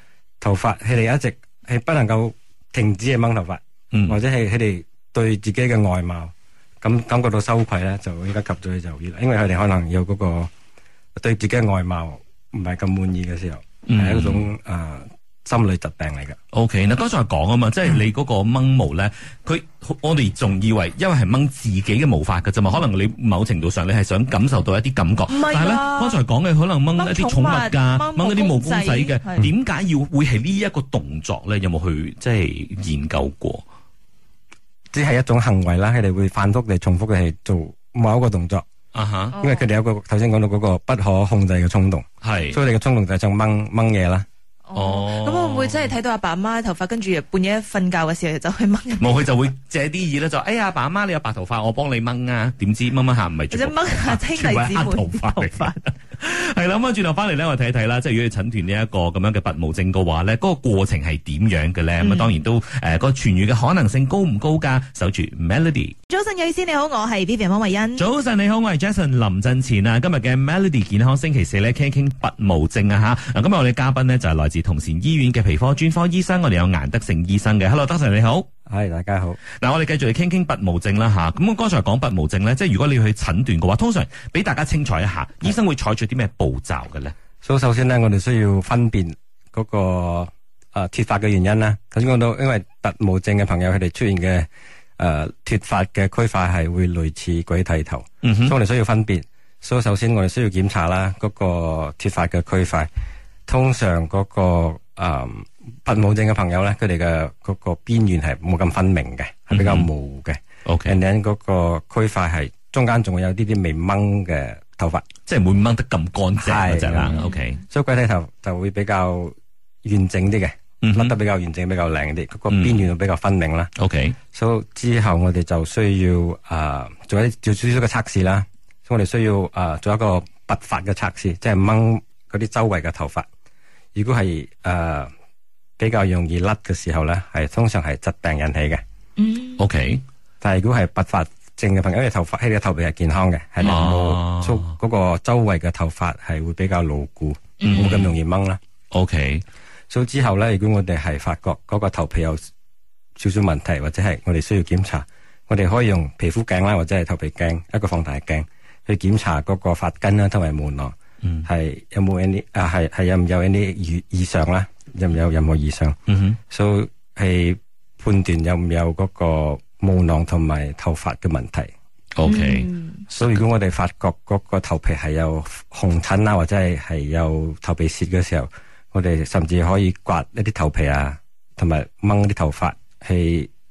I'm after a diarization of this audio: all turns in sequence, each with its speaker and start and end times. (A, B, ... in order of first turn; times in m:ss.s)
0:00.4-0:10.5 A
0:03.9-0:04.2 B
0:11.2-0:16.4 A
0:13.8-0:14.4 B
0:16.5-0:33.6 B
0:25.3-0:26.2 C
0:27.0-0:29.4 C
0:34.9-0:38.6 A
0:38.9-0:39.3 B
0:39.3-0:39.7 C
0:39.4-0:44.2 A
0:42.2-0:42.6 B
0:44.6-0:49.1 C
0:44.7-0:45.9 B
0:49.0-1:05.9 B
0:53.5-0:55.8 C
1:02.0-1:02.3 C
1:06.1-1:08.0 C
1:08.0-1:18.5 B
1:18.7-1:19.4 A
1:19.6-1:27.1 B
1:27.4-1:42.9 A
1:38.2-1:38.5 B
1:43.5-1:55.0 A
1:49.5-1:49.9 B
1:50.6-1:51.0 B
1:55.2-1:57.6 B
1:56.4-2:03.7 A
2:00.8-2:01.2 B
2:02.5-2:02.8 B
2:03.8-2:04.2 B
2:04.3-2:13.2 A
2:13.9-2:15.1 A
2:15.8-2:18.8 A
2:19.2-2:19.6 C
2:19.6-2:20.0 B
2:20.4-2:28.6 A
2:23.6-2:24.7 B
2:27.6-2:28.0 C
2:27.6-2:28.1 B
2:28.9-2:29.4 B
2:29.9-2:32.4 A
2:33.2-2:46.0 A
2:46.1-2:46.4 B
2:46.5-2:51.7 A
2:52.1-2:53.4 B
2:52.3-2:53.0 C
2:53.1-3:03.5 A